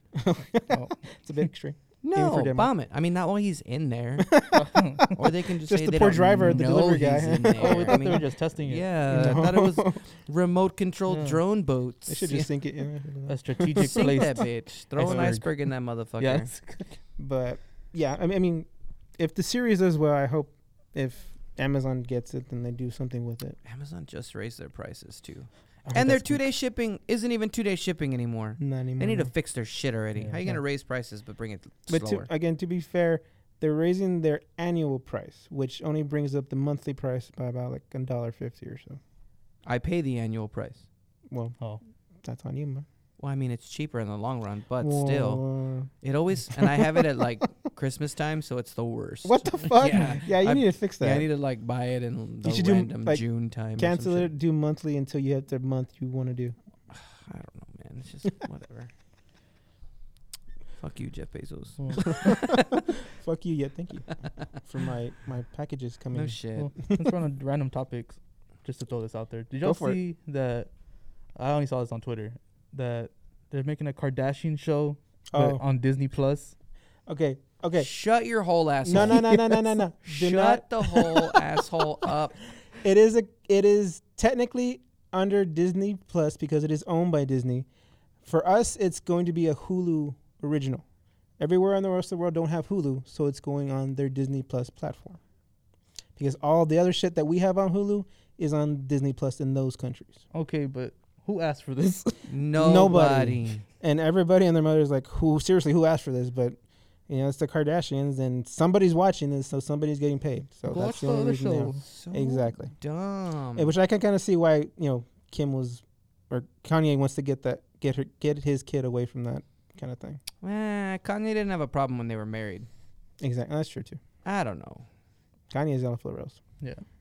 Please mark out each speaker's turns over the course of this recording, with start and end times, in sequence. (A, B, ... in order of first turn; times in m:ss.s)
0:00.1-0:02.7 A
0:00.7-0:01.0 B
0:02.0-0:04.4 C
0:04.2-0:05.1 A
0:04.6-0:05.1 B
0:05.1-0:12.5 C
0:05.6-0:08.2 A
0:07.6-0:08.9 B
0:09.0-0:10.0 A
0:11.1-0:11.4 B
0:12.1-0:14.4 A
0:13.3-0:16.9 B
0:13.8-0:16.5 C
0:15.0-0:15.3 A
0:17.2-0:23.6 A
0:23.6-0:32.3 C
0:25.9-0:26.4 A
0:28.6-0:29.3 A
0:30.2-0:30.5 B
0:31.9-0:39.0 A
0:39.6-0:40.8 C
0:41.3-0:41.6 A
0:42.2-0:42.8 A
0:43.2-0:45.4 C
0:44.8-0:45.9 A
0:46.0-0:54.3 C
0:46.5-0:47.0 A
0:49.2-0:51.2 A
0:52.4-0:56.6 A
0:56.9-0:58.9 C
1:00.8-1:02.8 C
1:03.0-1:07.1 A
1:06.1-1:06.7 C
1:06.6-1:10.7 B
1:09.6-1:10.0 A
1:11.4-1:16.5 B
1:15.3-1:15.6 A
1:17.1-1:17.9 A
1:17.8-1:19.4 C
1:18.8-1:21.4 A
1:18.9-1:19.2 B
1:20.0-1:22.4 C
1:22.8-1:27.7 A
1:28.2-1:30.8 A
1:31.4-1:35.2 A
1:36.2-1:40.2 A
1:40.3-1:42.2 B
1:42.3-1:43.6 C
1:42.5-1:52.7 A
1:50.6-1:51.8 B
1:51.8-1:53.7 C
1:53.6-2:00.2 A
2:00.4-2:02.7 C
2:03.2-2:04.0 A
2:04.2-2:04.9 C
2:05.5-2:06.4 A